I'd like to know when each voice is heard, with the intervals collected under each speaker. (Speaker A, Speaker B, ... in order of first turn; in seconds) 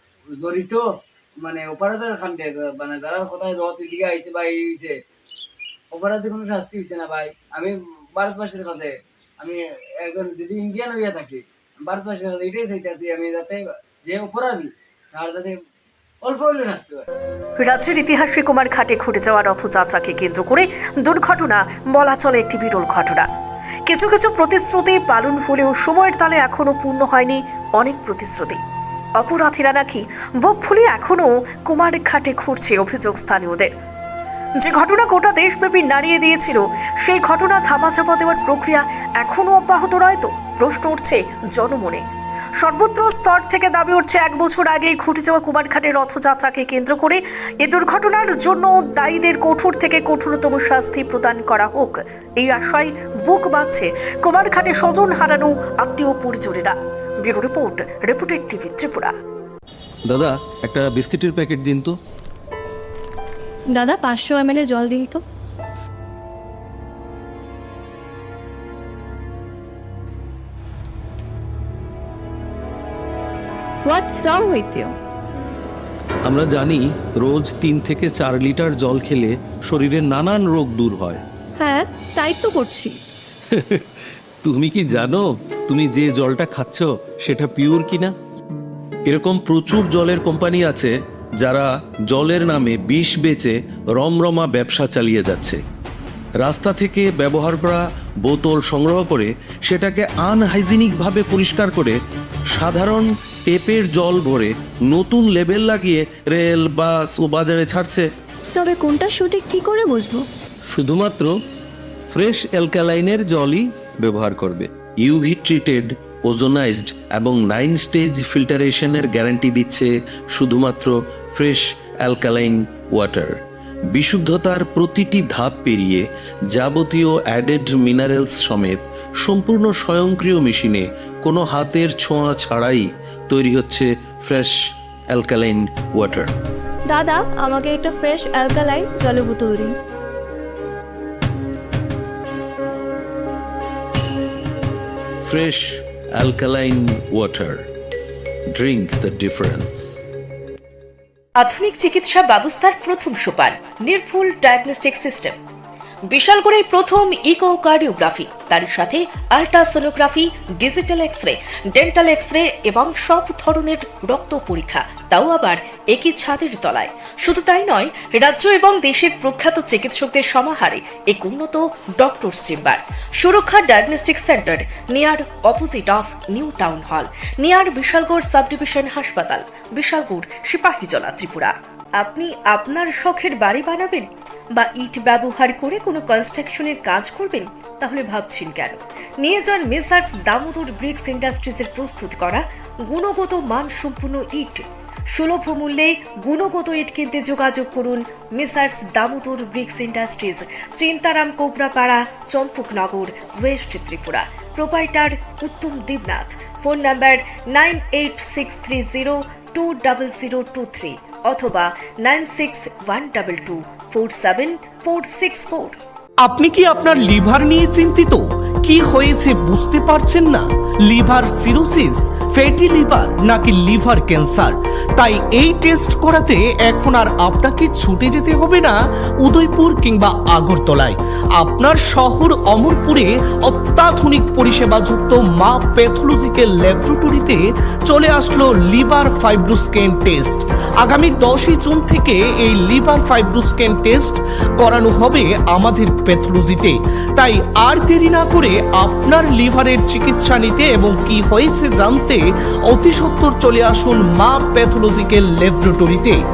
Speaker A: 0.4-0.9, 1.4-5.0, 5.9-15.6, 16.2-17.1
Speaker B: 17.6-23.3, 23.9-28.6, 29.2-33.7, 34.6-42.0, 42.6-59.1, 151.4-155.4, 156.1-215.8
Speaker C: 60.1-62.0, 76.2-81.2, 83.5-83.8, 84.4-88.1, 89.1-95.6, 96.4-102.0, 102.5-108.1, 110.7-111.3, 112.1-123.4, 123.9-134.6, 135.1-136.3, 145.2-147.7, 148.5-150.0
Speaker D: 63.7-65.2, 73.8-75.0, 81.6-83.0, 108.5-110.3, 136.9-139.8
Speaker E: 216.2-256.2